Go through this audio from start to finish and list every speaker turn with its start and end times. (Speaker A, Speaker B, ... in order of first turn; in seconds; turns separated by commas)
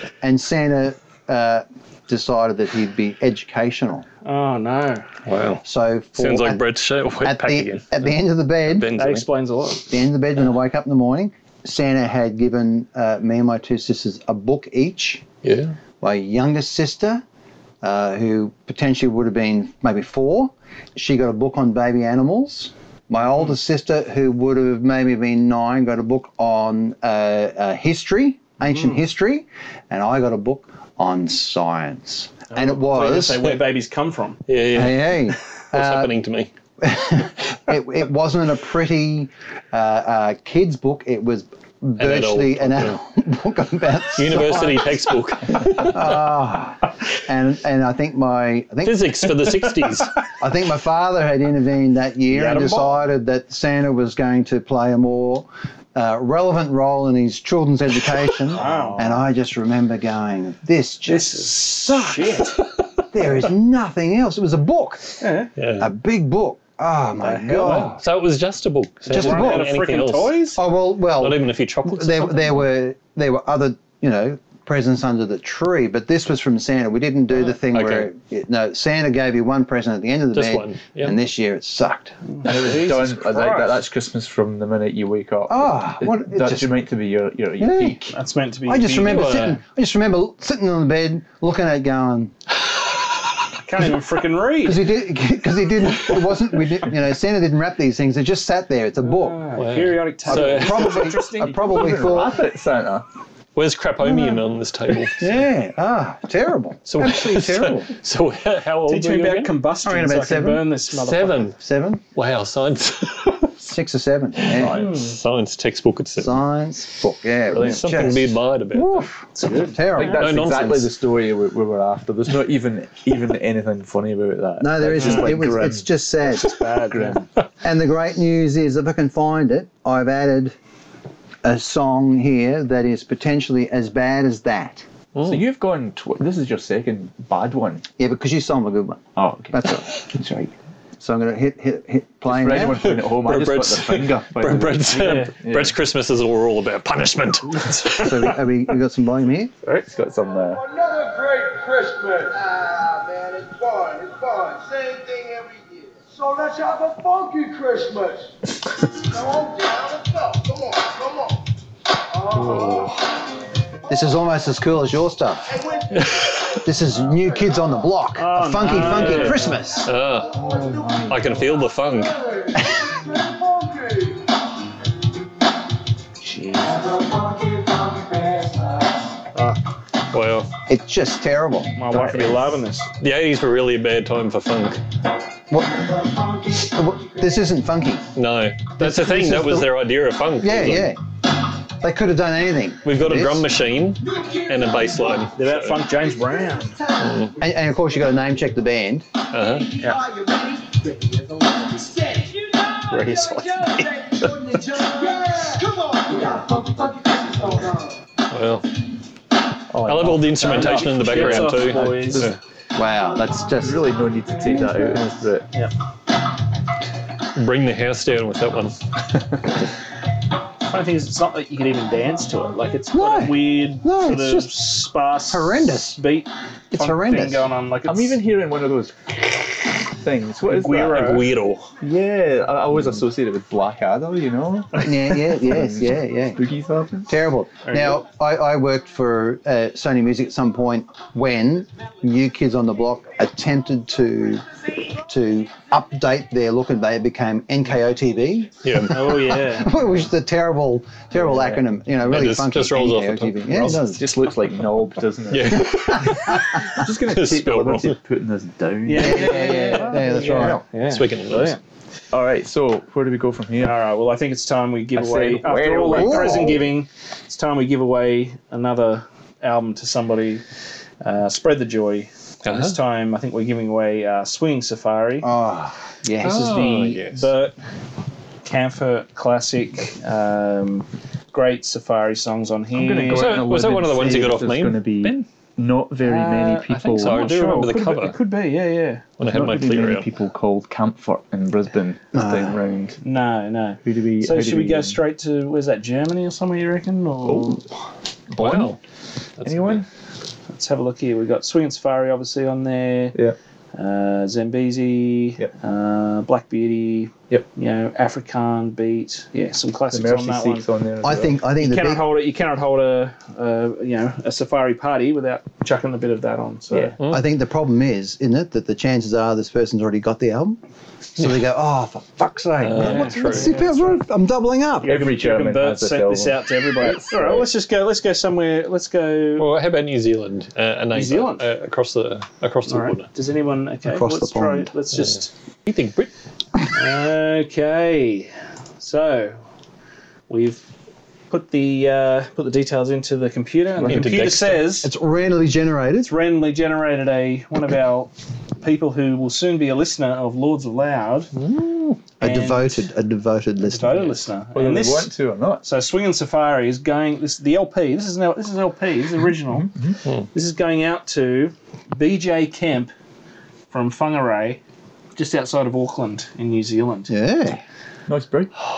Speaker A: 0.2-4.1, Speaker B: 4.2-5.1, Speaker C: 5.3-5.6, Speaker A: 5.6-6.7, Speaker C: 6.2-9.3, Speaker A: 7.2-8.9, Speaker B: 9.0-9.9, Speaker A: 9.9-15.2, Speaker C: 15.4-15.8, Speaker A: 16.0-17.2, Speaker A: 17.8-33.5, Speaker B: 28.7-29.0, Speaker B: 32.5-34.4, Speaker C: 34.5-36.5, Speaker A: 34.7-36.1, Speaker A: 36.8-49.3, Speaker C: 42.0-43.0, Speaker C: 44.2-46.2, Speaker C: 48.8-50.2, Speaker A: 50.4-62.4, Speaker B: 52.3-53.0, Speaker B: 58.5-59.2, Speaker B: 61.1-62.6, Speaker A: 63.1-65.2, Speaker B: 65.2-65.5, Speaker C: 65.6-65.9, Speaker A: 65.8-68.0, Speaker B: 67.2-67.9, Speaker C: 67.6-70.5, Speaker A: 69.1-69.7, Speaker B: 69.1-70.6, Speaker A: 70.6-82.2, Speaker C: 71.2-72.7, Speaker C: 77.7-78.0, Speaker C: 80.3-81.2, Speaker B: 82.3-83.8, Speaker D: 82.4-88.1, Speaker A: 85.5-86.7, Speaker A: 87.6-88.2, Speaker B: 88.1-89.3, Speaker A: 88.7-92.3, Speaker C: 89.0-89.6, Speaker B: 93.6-94.9, Speaker A: 94.6-99.4, Speaker B: 99.0-101.7, Speaker C: 99.6-101.1, Speaker A: 100.3-102.4, Speaker D: 101.5-103.1, Speaker C: 103.6-105.5, Speaker A: 104.0-104.5, Speaker A: 105.1-107.9, Speaker C: 106.9-109.5, Speaker B: 108.9-111.5, Speaker A: 109.8-110.8, Speaker C: 110.9-111.6, Speaker A: 111.5-112.0, Speaker C: 112.1-113.5, Speaker A: 113.6-114.8, Speaker C: 114.5-116.4, Speaker D: 114.5-115.1, Speaker B: 114.8-115.2, Speaker A: 116.2-120.8, Speaker C: 117.5-119.1, Speaker B: 119.3-119.8, Speaker D: 119.9-125.9, Speaker C: 120.0-120.9, Speaker A: 124.6-126.6, Speaker B: 125.0-125.5, Speaker B: 126.2-127.2, Speaker D: 126.8-127.3, Speaker A: 127.6-130.6, Speaker A: 131.4-134.8, Speaker C: 135.2-135.4, Speaker D: 135.2-137.8, Speaker A: 138.0-139.9, Speaker D: 139.2-140.5, Speaker A: 141.0-142.9, Speaker D: 142.3-145.8, Speaker C: 142.5-148.3, Speaker B: 145.0-145.3, Speaker A: 148.0-149.5, Speaker D: 149.9-150.6, Speaker E: 150.7-158.2, Speaker E: 159.1-161.0, Speaker C: 162.3-163.0, Speaker A: 163.9-165.6, Speaker C: 165.9-166.4, Speaker A: 166.6-169.9, Speaker B: 168.2-169.6, Speaker C: 168.7-170.4, Speaker E: 170.6-171.1, Speaker C: 171.1-172.2, Speaker E: 173.4-173.7, Speaker B: 176.4-176.7, Speaker C: 180.1-180.5, Speaker A: 180.7-181.8, Speaker B: 181.8-182.9, Speaker D: 181.9-182.5, Speaker C: 183.0-184.8, Speaker A: 185.5-188.1, Speaker C: 188.2-190.9, Speaker A: 188.8-189.7, Speaker A: 190.4-191.0, Speaker A: 191.8-193.5, Speaker C: 192.8-195.8, Speaker B: 195.3-196.8, Speaker C: 197.0-197.3, Speaker A: 197.3-199.1, Speaker C: 199.3-199.7, Speaker B: 202.9-204.0, Speaker C: 208.3-208.7, Speaker D: 209.7-212.3, Speaker C: 209.8-212.4, Speaker B: 210.4-212.3, Speaker A: 212.7-213.9, Speaker D: 213.6-215.5, Speaker A: 214.5-214.9, Speaker C: 217.3-218.8, Speaker B: 220.7-228.2, Speaker A: 222.9-224.6, Speaker A: 225.3-226.0, Speaker A: 226.7-227.5, Speaker D: 227.8-231.2, Speaker B: 230.5-231.3, Speaker C: 230.9-231.7, Speaker D: 231.8-237.1, Speaker A: 234.8-236.4, Speaker A: 237.1-244.4, Speaker B: 237.7-238.0, Speaker A: 245.0-248.6, Speaker C: 248.6-249.3, Speaker B: 248.9-249.8, Speaker A: 249.5-254.1, Speaker C: 252.1-253.8, Speaker D: 253.8-256.1, Speaker C: 255.3-258.0, Speaker D: 256.7-260.6, Speaker B: 258.9-261.6, Speaker A: 259.0-260.6, Speaker C: 260.9-261.6, Speaker D: 262.1-263.8, Speaker B: 263.6-270.4, Speaker D: 264.9-266.7, Speaker A: 265.9-266.5, Speaker B: 271.0-275.3, Speaker C: 272.4-272.8, Speaker A: 275.2-276.8, Speaker C: 276.2-277.3, Speaker B: 276.2-277.6, Speaker B: 278.4-283.4, Speaker D: 282.7-287.3, Speaker C: 283.1-285.3, Speaker B: 286.0-289.0, Speaker C: 286.7-288.2, Speaker C: 289.2-290.1, Speaker D: 289.3-293.0, Speaker A: 292.1-292.6, Speaker B: 293.0-297.6, Speaker D: 293.8-295.0, Speaker D: 297.2-297.6, Speaker D: 298.3-298.8, Speaker C: 298.3-298.8, Speaker C: 299.4-299.8, Speaker D: 299.4-299.9, Speaker B: 300.5-303.2, Speaker B: 303.7-310.7, Speaker D: 309.9-311.4, Speaker A: 311.0-312.1, Speaker B: 311.6-316.9, Speaker D: 316.7-317.0, Speaker A: 317.1-320.6, Speaker A: 321.2-325.1, Speaker C: 322.6-323.6, Speaker B: 322.8-324.0, Speaker B: 324.8-329.5, Speaker D: 324.8-327.5, Speaker C: 329.4-333.1, Speaker B: 330.9-331.4, Speaker B: 332.7-335.3, Speaker A: 333.9-334.7, Speaker C: 335.7-336.1, Speaker B: 336.7-339.4, Speaker B: 340.3-340.7, Speaker B: 341.3-344.9, Speaker D: 343.8-344.1, Speaker C: 343.8-344.8, Speaker A: 344.8-346.1, Speaker B: 346.0-351.3, Speaker C: 351.4-352.0, Speaker B: 352.2-352.9, Speaker A: 352.2-354.2, Speaker B: 353.6-359.7, Speaker D: 354.5-355.6, Speaker D: 359.5-360.0, Speaker B: 360.3-362.9, Speaker B: 363.7-364.6, Speaker B: 365.2-367.1, Speaker A: 367.1-367.6, Speaker D: 368.1-368.5